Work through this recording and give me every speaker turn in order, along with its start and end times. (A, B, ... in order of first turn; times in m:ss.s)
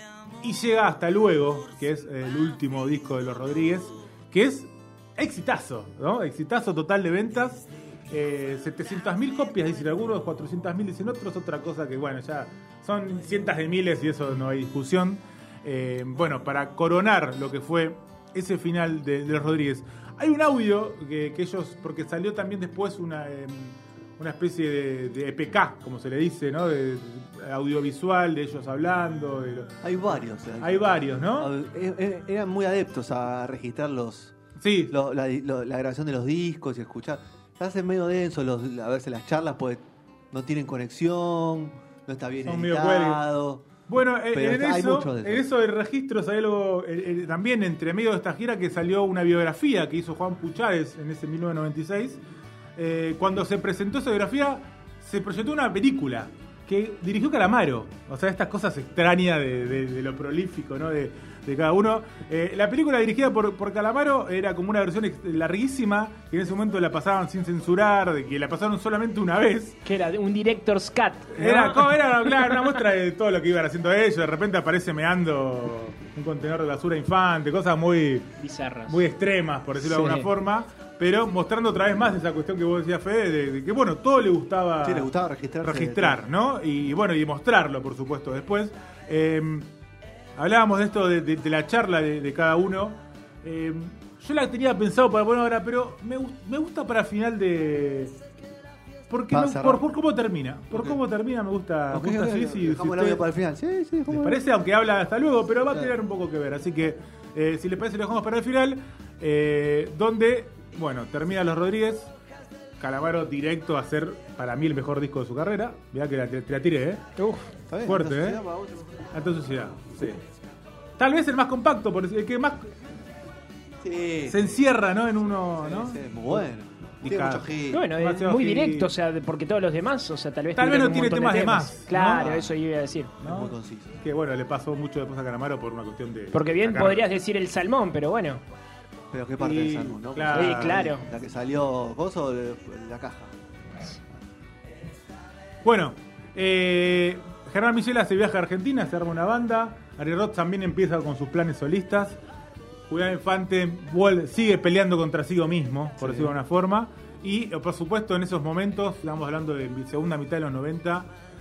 0:00.4-0:31.5 A
0:29.8-0:34.3 B
0:34.6-0:35.0 A
0:34.9-0:43.6 B
0:42.4-0:43.2 A
0:43.9-0:52.2 A
0:44.3-0:45.5 B
0:52.8-1:09.8 A
1:09.8-1:12.6 C
1:11.3-1:18.3 A
1:18.4-1:19.1 C
1:18.9-1:29.7 A
1:19.8-1:20.1 B
1:24.8-1:26.2 B
1:30.4-1:38.2 A
1:39.1-1:43.2 A
1:39.3-1:39.9 B
1:40.7-1:41.0 B
1:41.9-1:44.4 B
1:44.1-1:52.1 A
1:52.8-1:57.1 A
1:57.2-1:57.5 C
1:57.7-1:59.1 B
1:57.8-1:58.4 A
1:59.1-2:00.2 A
2:01.0-2:02.7 A
2:03.8-2:04.5 B
2:04.3-2:06.5 A
2:05.6-2:07.9 B
2:07.0-2:08.9 A
2:07.7-2:13.1 C
2:10.6-2:12.5 A
2:13.2-2:17.0 A
2:13.2-2:13.9 B
2:16.3-2:18.4 C
2:19.1-2:23.3 B
2:19.4-2:20.9 A
2:20.3-2:21.0 C
2:25.6-2:32.2 A
2:32.9-2:41.1 A
2:36.0-2:36.4 B